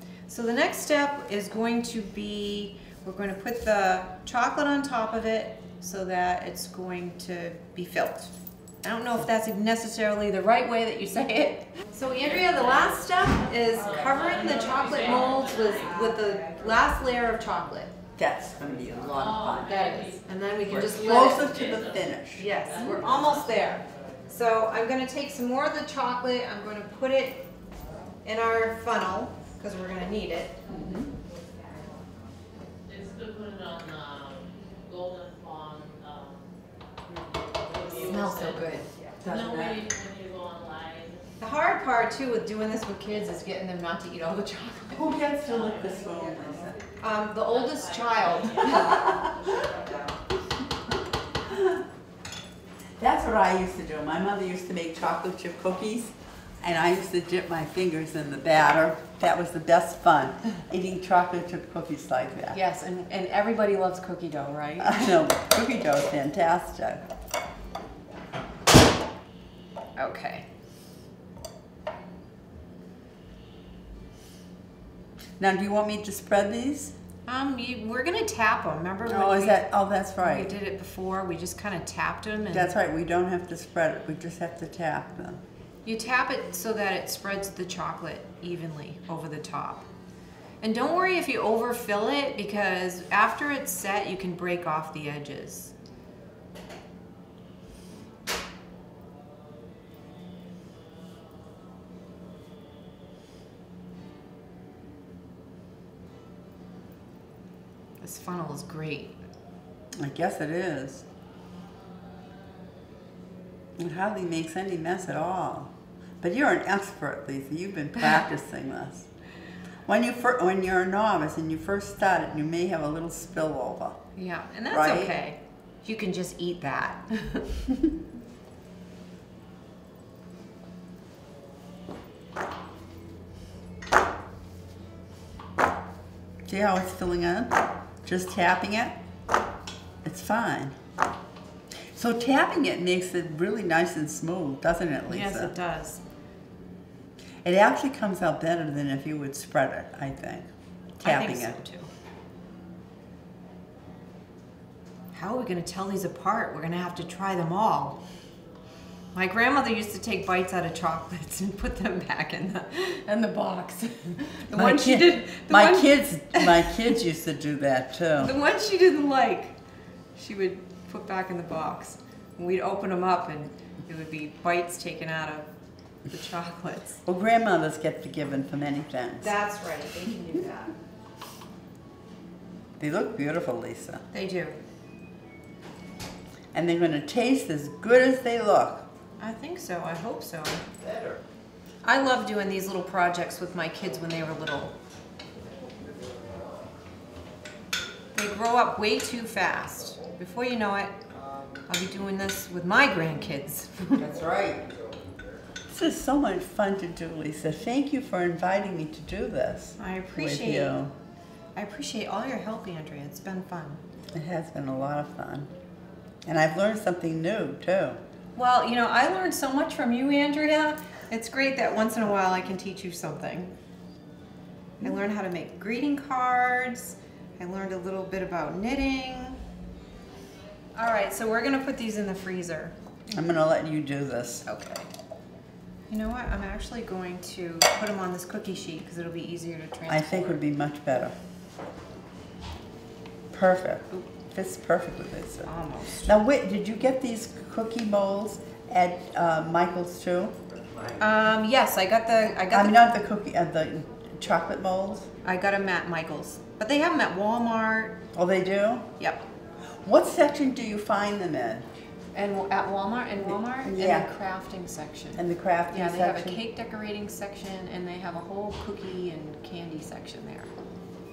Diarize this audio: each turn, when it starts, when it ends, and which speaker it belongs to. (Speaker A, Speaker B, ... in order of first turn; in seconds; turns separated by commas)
Speaker A: 0.3-8.3, Speaker A: 8.8-17.9, Speaker B: 12.2-16.2, Speaker C: 18.2-19.8, Speaker B: 19.1-23.8, Speaker A: 19.6-21.6, Speaker C: 20.7-22.7, Speaker A: 22.4-27.4, Speaker A: 28.2-30.6, Speaker C: 30.7-31.1, Speaker B: 32.9-36.5, Speaker B: 37.5-41.2, Speaker A: 38.0-38.9, Speaker C: 39.2-39.8, Speaker A: 41.4-45.1, Speaker C: 44.9-46.8, Speaker A: 47.0-49.1, Speaker B: 47.4-49.8, Speaker C: 48.7-49.3, Speaker C: 51.5-51.8, Speaker C: 53.0-62.6, Speaker A: 62.5-65.1, Speaker C: 64.8-67.0, Speaker A: 70.0-70.4, Speaker C: 75.4-76.9, Speaker A: 77.2-82.7, Speaker C: 79.0-80.5, Speaker C: 82.5-85.4, Speaker A: 85.8-89.8, Speaker A: 90.6-95.7, Speaker A: 108.0-109.2, Speaker C: 109.9-111.0, Speaker C: 113.8-119.1, Speaker C: 119.8-124.0, Speaker A: 124.2-127.4, Speaker C: 124.7-125.1, Speaker C: 136.4-139.0, Speaker C: 140.0-140.8, Speaker C: 141.9-145.5, Speaker A: 145.1-146.0, Speaker C: 147.4-150.5, Speaker C: 151.0-151.6, Speaker A: 151.0-151.9, Speaker A: 155.1-158.0, Speaker A: 159.1-166.6, Speaker C: 164.5-168.3, Speaker A: 168.2-169.5, Speaker A: 170.2-175.5, Speaker A: 176.1-177.0, Speaker C: 177.0-179.4, Speaker A: 179.2-180.7, Speaker C: 182.8-184.0, Speaker A: 184.1-184.6, Speaker C: 186.5-188.9, Speaker A: 189.2-190.6, Speaker A: 191.8-194.7, Speaker A: 198.1-201.0, Speaker A: 201.7-204.1, Speaker C: 203.9-204.7, Speaker C: 205.7-210.9, Speaker A: 209.8-210.8, Speaker A: 211.6-213.8, Speaker C: 214.1-215.5, Speaker C: 216.2-218.0, Speaker A: 218.3-223.5, Speaker A: 224.8-229.4, Speaker A: 230.8-233.1, Speaker C: 233.1-234.4, Speaker A: 234.4-234.9, Speaker A: 235.9-240.4, Speaker C: 239.9-241.1, Speaker C: 243.3-245.5, Speaker A: 245.4-246.1, Speaker C: 246.0-250.3, Speaker A: 251.0-252.9, Speaker C: 252.5-255.1, Speaker A: 255.2-258.0, Speaker C: 258.1-258.9, Speaker A: 259.0-259.2, Speaker C: 259.8-261.7, Speaker A: 262.1-270.5, Speaker C: 263.2-264.1, Speaker C: 265.1-266.4